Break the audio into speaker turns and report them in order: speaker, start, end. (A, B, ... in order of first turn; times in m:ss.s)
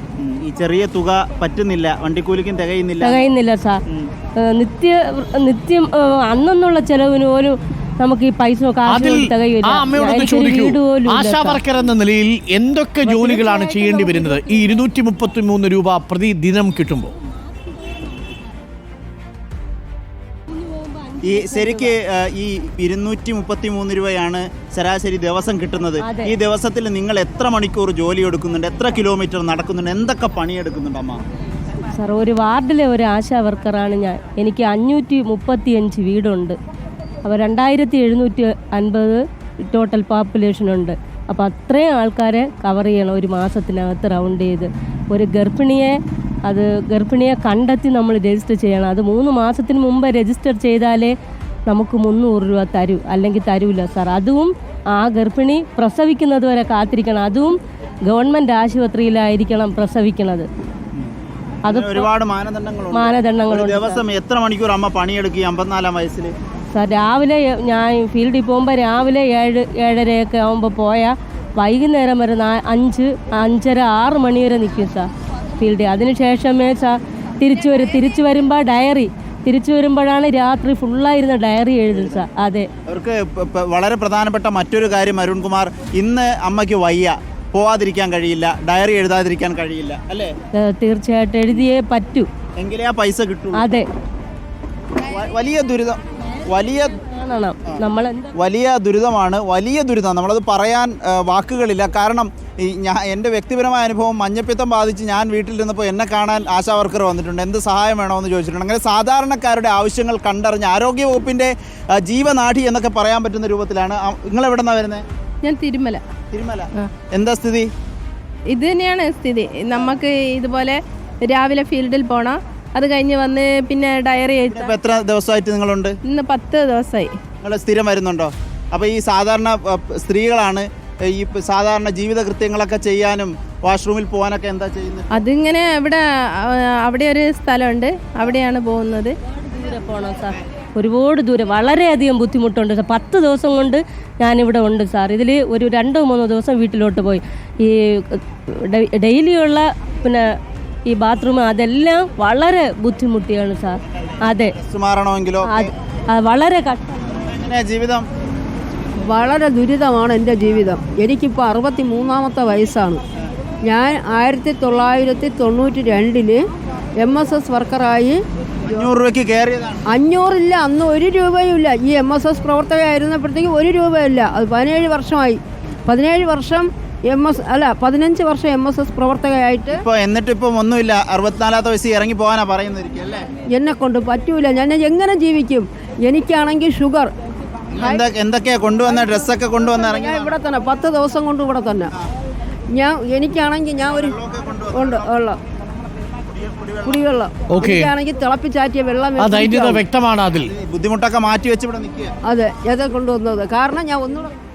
0:00.2-0:03.2 A
0:03.0-0:03.8 B
0:04.5-0:11.6 B
0:08.9-0:17.1 C
0:13.0-0:14.8 B
0:20.5-0:21.9 B
0:21.2-0:31.2 A
0:26.0-0:26.3 B
0:31.9-0:36.6 B
0:37.2-0:51.1 B
0:51.7-0:57.6 B
0:58.1-1:00.5 B
1:01.6-1:06.3 A
1:01.6-1:02.1 B
1:02.9-1:04.0 B
1:06.7-1:22.7 B
1:21.9-1:22.3 A
1:22.9-1:30.3 A
1:30.6-1:32.3 B
1:32.6-1:33.6 A
1:33.6-1:33.9 B
1:35.0-1:36.9 A
1:36.9-1:38.3 B
1:38.4-1:55.0 A
1:55.4-1:56.0 D
1:56.3-1:57.7 A
1:58.5-2:04.7 D
2:04.5-2:06.0 A
2:06.0-2:07.2 D
2:07.4-2:15.1 A
2:15.1-2:19.2 D
2:19.3-2:30.3 B
2:30.9-2:34.6 B
2:34.6-2:35.7 A
2:35.5-2:37.2 B
2:37.3-2:38.0 A
2:39.0-2:43.0 E
2:43.6-2:46.4 E
2:47.0-2:48.9 E
2:48.6-2:49.8 A
2:49.9-2:59.8 E
2:59.7-3:03.2 A
3:03.5-3:07.1 E
3:07.7-3:10.4 A
3:07.8-3:08.0 E
3:09.8-3:11.9 E
3:12.7-3:14.2 E
3:13.9-3:15.1 A
3:14.7-3:15.4 E
3:16.3-3:17.0 A
3:16.8-3:19.8 E
3:17.5-3:17.9 C
3:19.2-3:20.5 C
3:20.3-3:22.1 A
3:22.2-3:24.3 E